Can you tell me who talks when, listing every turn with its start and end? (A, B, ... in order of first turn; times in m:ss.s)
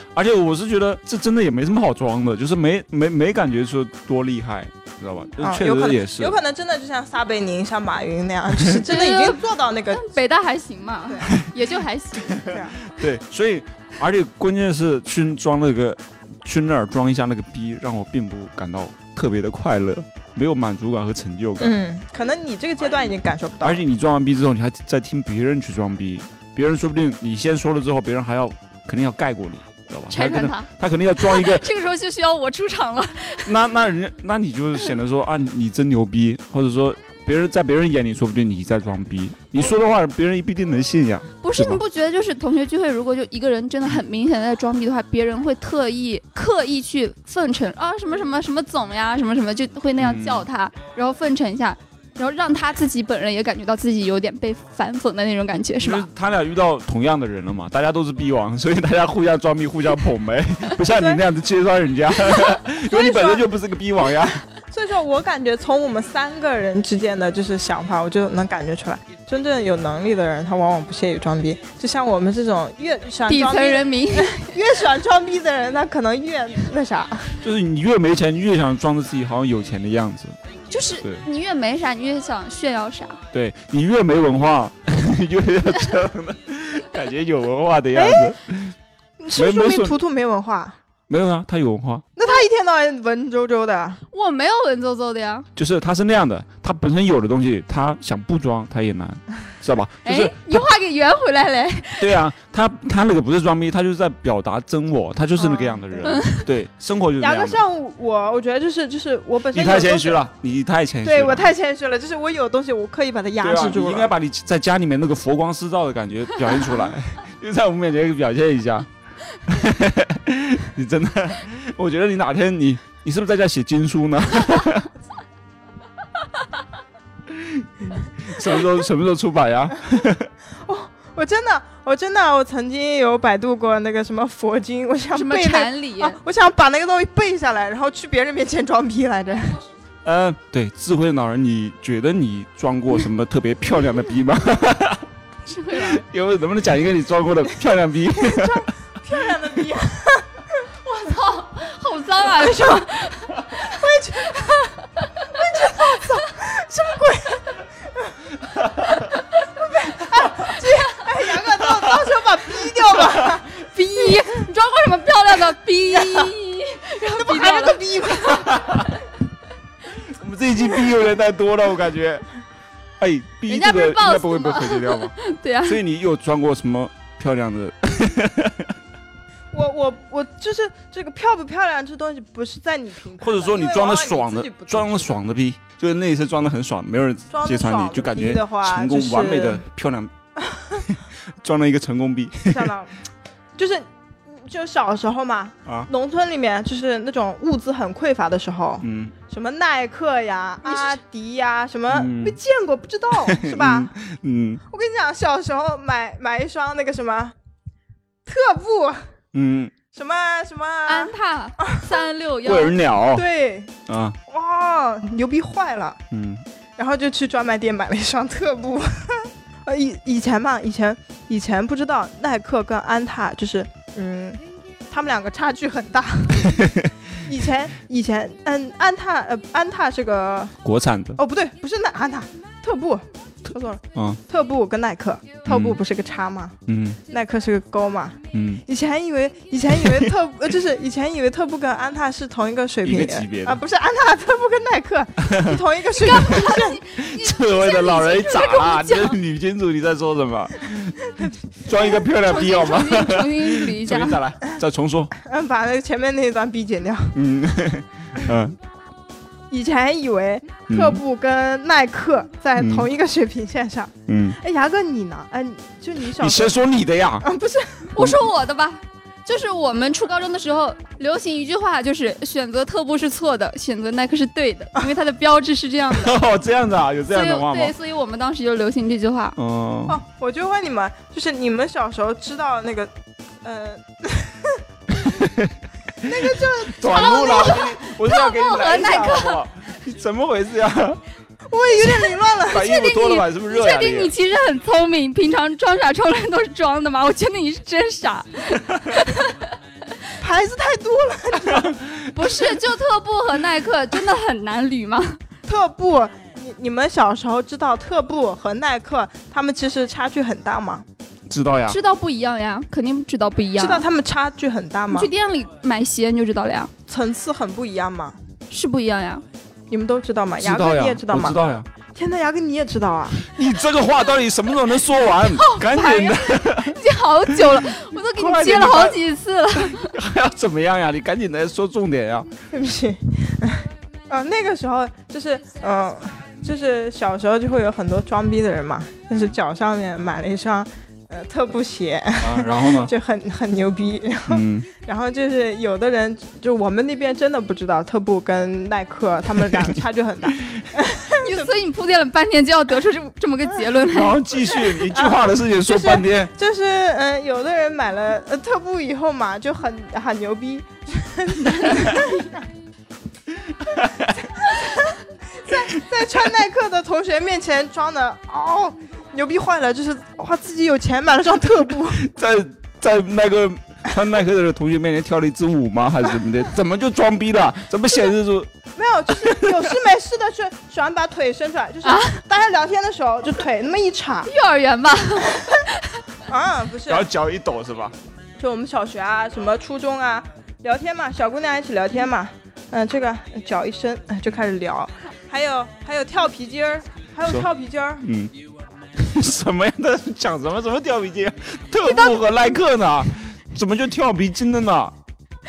0:00.1-0:06.4 A
0:05.4-0:10.0 B
0:08.8-0:12.5 C
0:11.1-0:11.4 B
0:12.4-0:21.7 A
0:12.5-0:12.8 B
0:21.6-0:23.8 B
0:23.6-0:31.7 A
0:30.1-0:33.5 C
0:33.4-0:41.8 A
0:41.4-0:56.0 C
0:50.0-0:50.4 A
0:55.8-1:04.4 A
1:00.9-1:01.2 B
1:02.9-1:03.5 B
1:04.7-1:17.4 B
1:13.3-1:14.5 C
1:17.4-1:20.4 A
1:20.7-1:23.2 C
1:23.3-1:28.7 A
1:27.9-1:28.3 B
1:29.2-1:30.8 B
1:29.3-1:30.0 A
1:31.1-1:32.0 A
1:32.2-1:34.0 B
1:34.1-1:35.5 C
1:35.6-1:40.6 A
1:40.0-1:42.2 C
1:42.0-1:47.6 A
1:45.4-1:46.2 B
1:46.0-1:46.4 C
1:47.2-1:50.2 B
1:49.5-1:51.5 A
1:51.0-1:54.1 B
1:53.4-1:58.9 A
1:59.4-2:04.9 A
2:07.3-2:10.3 A
2:10.6-2:19.6 B
2:15.1-2:16.2 C
2:20.0-2:25.0 A
2:25.4-2:26.0 C
2:25.7-2:28.7 A
2:28.1-2:30.6 B
2:30.8-2:35.2 C
2:32.4-2:32.8 B
2:33.6-2:34.6 B
2:35.3-2:38.2 B
2:38.6-2:38.9 A
2:39.5-2:44.4 B
2:40.6-2:41.0 C
2:41.6-2:42.0 A
2:43.7-2:48.5 C
2:45.9-2:46.3 B
2:47.1-2:48.6 B
2:48.3-2:48.9 A
2:50.1-2:52.2 A
2:53.0-2:55.1 A
2:53.5-2:55.8 C
2:55.6-2:58.7 A
2:59.5-3:05.2 B
3:03.2-3:10.1 A
3:07.3-3:09.6 B
3:10.4-3:10.8 B
3:10.8-3:12.7 A
3:12.5-3:12.9 B
3:13.6-3:23.9 B
3:18.8-3:19.1 A
3:21.9-3:22.4 A
3:23.2-3:24.6 A
3:24.7-3:27.3 B
3:28.2-3:29.1 B
3:29.3-3:29.7 A
3:29.9-3:32.0 B
3:30.9-3:32.8 C
3:32.4-3:33.2 A
3:33.1-3:33.7 B
3:33.9-3:34.2 A
3:34.3-3:36.0 B
3:36.1-3:36.4 A
3:36.8-3:46.7 B
3:46.4-3:46.9 A
3:47.2-3:50.5 B
3:50.6-3:51.2 A
3:51.2-3:56.6 B
3:53.9-3:54.2 A
3:55.4-3:55.8 A
3:56.7-3:57.0 A
3:57.1-4:06.8 B
3:58.3-3:58.6 A
4:02.8-4:03.6 A
4:05.2-4:05.6 A
4:05.9-4:09.2 C
4:06.9-4:15.1 A
4:11.8-4:14.2 C
4:15.2-4:17.1 B
4:17.1-4:18.6 A
4:19.5-4:26.6 B
4:20.7-4:21.0 A
4:22.6-4:22.9 A
4:24.1-4:24.4 A
4:26.2-4:27.3 A
4:27.2-4:27.9 B
4:27.9-4:36.1 C
4:28.0-4:28.2 A
4:35.9-4:37.7 A
4:37.1-4:39.4 C
4:39.4-4:40.0 A
4:39.9-4:44.6 B
4:45.0-4:51.0 A
4:46.0-4:47.6 B
4:46.9-4:49.4 C
4:51.5-4:52.7 B
4:52.5-4:59.5 C
4:52.5-4:54.1 A
5:00.2-5:01.8 B
5:01.4-5:02.5 A
5:02.1-5:05.2 C
5:05.4-5:10.8 B
5:11.3-5:11.8 A
5:11.7-5:13.9 C
5:13.6-5:15.1 B
5:14.9-5:16.7 C
5:16.9-5:18.2 B
5:18.5-5:19.2 C
5:19.7-5:21.4 B
5:20.4-5:21.7 A
5:21.9-5:23.2 B
5:23.2-5:26.8 A
5:25.2-5:29.9 C
5:27.3-5:29.0 A
5:29.6-5:32.3 A
5:32.5-5:51.5 B
5:42.2-5:42.9 A
5:44.3-5:44.7 A
5:50.4-5:50.6 A
5:51.2-5:54.2 C
5:53.8-5:56.3 A
5:54.7-6:02.4 B
6:01.4-6:02.2 C
6:03.4-6:04.5 A
6:04.4-6:12.0 B
6:11.9-6:18.5 A
6:18.8-6:24.3 B
6:19.1-6:19.7 A
6:21.8-6:22.2 C
6:24.3-6:26.0 C
6:25.3-6:25.6 B
6:26.2-6:27.0 B
6:26.9-6:27.9 A
6:28.4-6:38.0 B
6:38.0-6:38.3 A
6:39.0-6:44.9 A
6:41.8-6:42.1 C